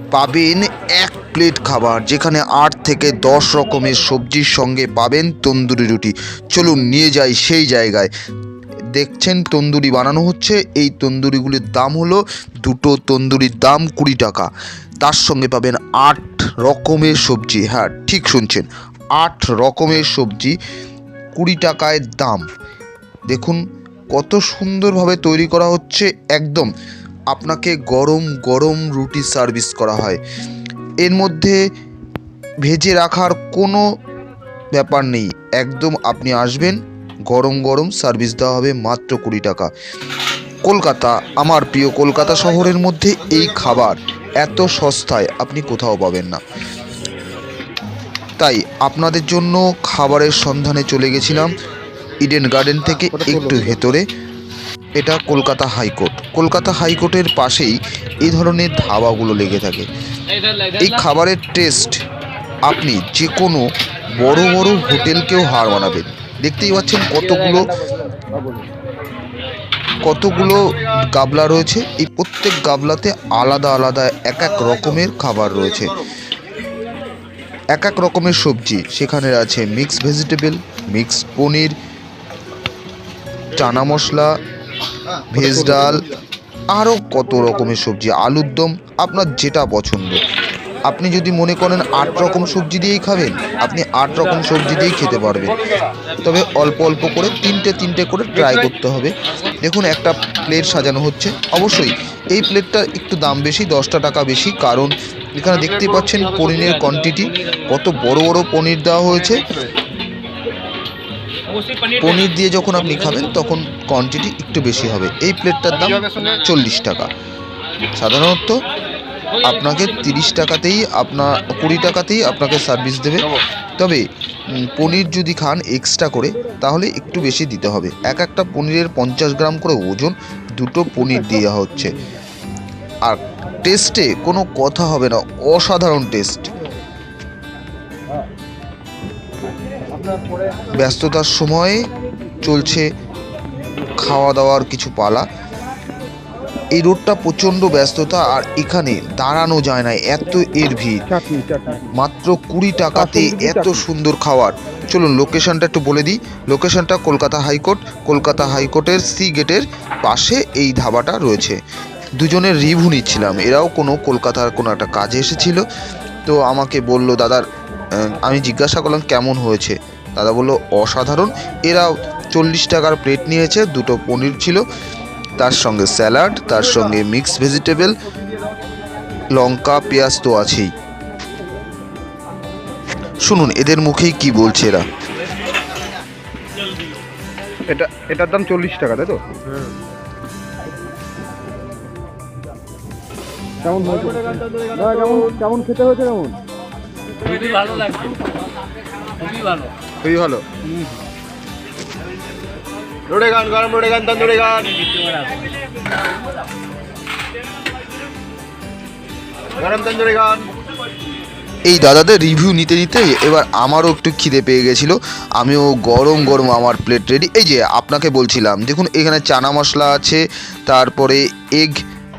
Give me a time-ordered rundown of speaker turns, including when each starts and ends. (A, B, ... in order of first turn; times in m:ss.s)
0:00.1-0:08.1 A
0:08.9-0:14.5 A
0:15.0-0:18.7 A
0:19.2-0:20.6 A
0:21.4-0:22.4 A
0:23.3-0:23.6 A
0:24.1-0:26.7 A
0:27.3-0:30.2 A
0:31.0-0:31.6 A
0:32.6-0:33.8 A
0:34.7-0:39.7 A
0:40.6-0:46.4 A
0:48.4-0:51.5 A
0:52.2-0:54.1 A
0:53.1-0:53.8 B
0:55.0-0:59.9 A
1:00.8-1:02.0 A
1:02.7-1:03.6 A
1:04.2-1:07.8 A
1:08.4-1:08.6 B
1:10.0-1:16.0 A
1:17.7-1:21.7 A
1:23.5-1:24.3 A
1:25.3-1:26.0 A
1:25.4-1:26.0 B
1:26.7-1:30.2 A
1:30.9-1:35.6 A
1:36.2-1:49.4 A
1:52.0-1:57.1 A
1:58.0-1:58.6 A
1:59.4-2:12.0 A
2:13.0-2:16.5 A
2:20.8-2:21.9 A
2:22.4-2:22.9 A
2:24.0-2:25.3 A
2:26.7-2:31.0 A
2:31.1-2:31.9 B
2:31.9-2:41.6 A
2:32.9-2:33.8 B
2:42.2-2:45.7 A
2:46.2-2:47.5 A
2:48.0-2:54.6 A
2:55.4-2:57.9 A
2:59.3-3:00.7 A
3:03.2-3:04.8 A
3:07.7-3:09.4 B
3:13.6-3:16.4 B
3:17.3-3:17.7 C
3:17.5-3:18.0 B
3:20.0-3:20.4 B
3:23.1-3:24.8 C
3:29.6-3:30.4 C
3:31.7-3:41.8 A